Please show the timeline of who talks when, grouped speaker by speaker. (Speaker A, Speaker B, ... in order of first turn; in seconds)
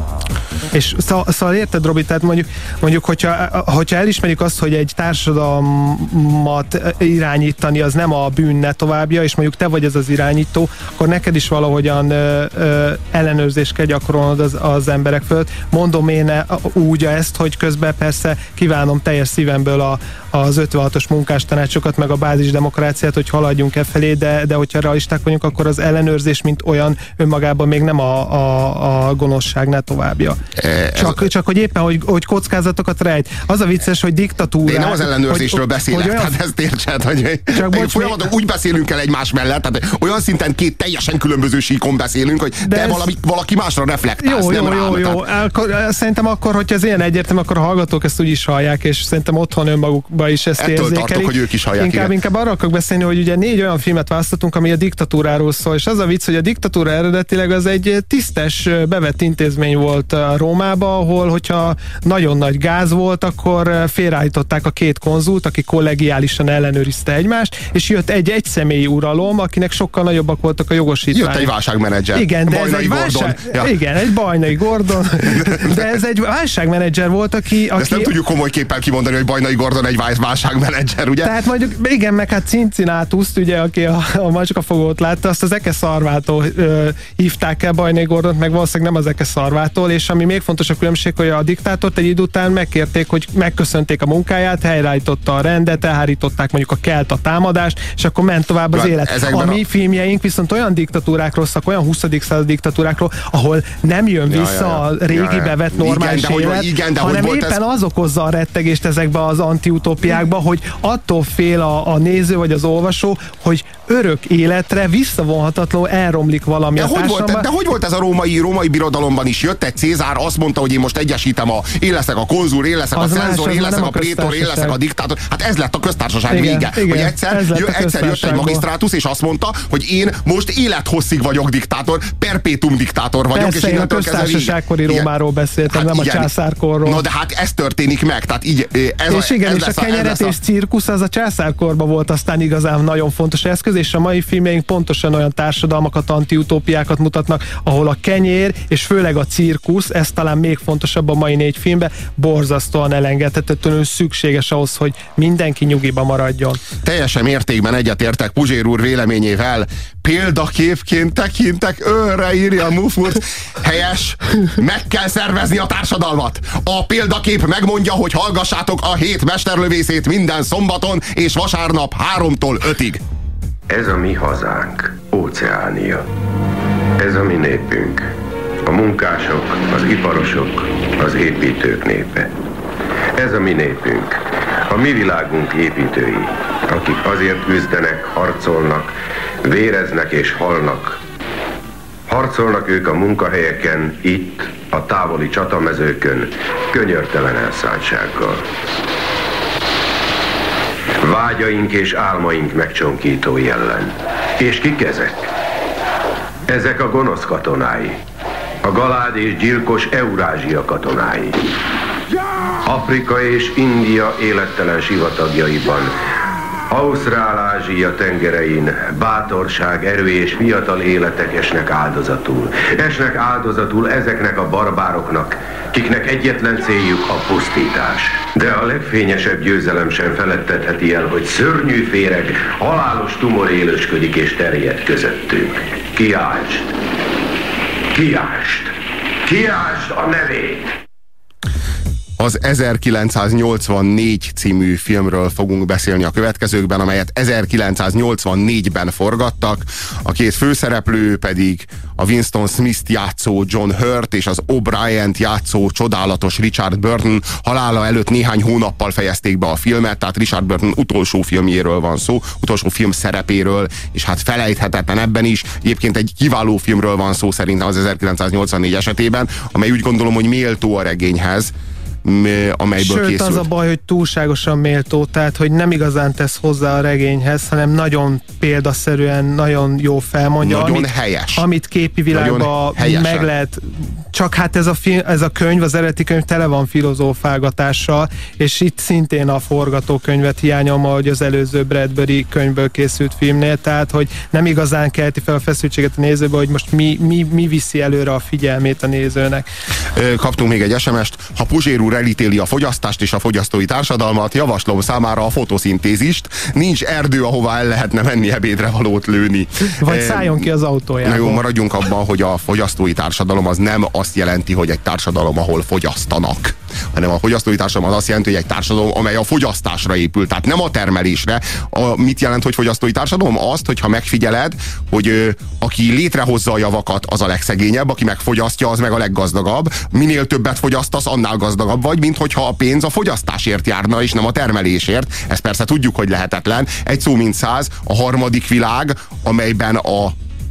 Speaker A: 0.7-30.4, 30.9-36.4, 37.5-38.3, 42.6-43.1, 44.2-71.5, 72.1-78.1, 81.2-117.5, 122.9-124.8, 126.3-128.6, 133.3-137.0, 139.1-156.6, 272.8-299.4, 309.8-311.4
Speaker B: 30.6-31.3, 34.6-45.2, 50.6-52.1, 71.1-73.7, 75.3-75.8, 77.8-81.3, 98.7-99.6, 104.3-107.6, 116.8-135.1, 135.7-136.3, 136.8-140.3, 156.8-173.0, 242.2-271.5, 272.0-273.5, 280.4-281.4, 282.1-283.3, 299.9-310.5, 311.0-340.1
Speaker C: 173.7-176.1, 177.0-178.1, 178.7-182.3, 183.1-191.0, 192.1-198.5, 201.0-205.2, 206.5-208.0, 208.6-211.4, 212.6-215.9, 216.7-236.7, 237.9-238.7, 239.2-240.7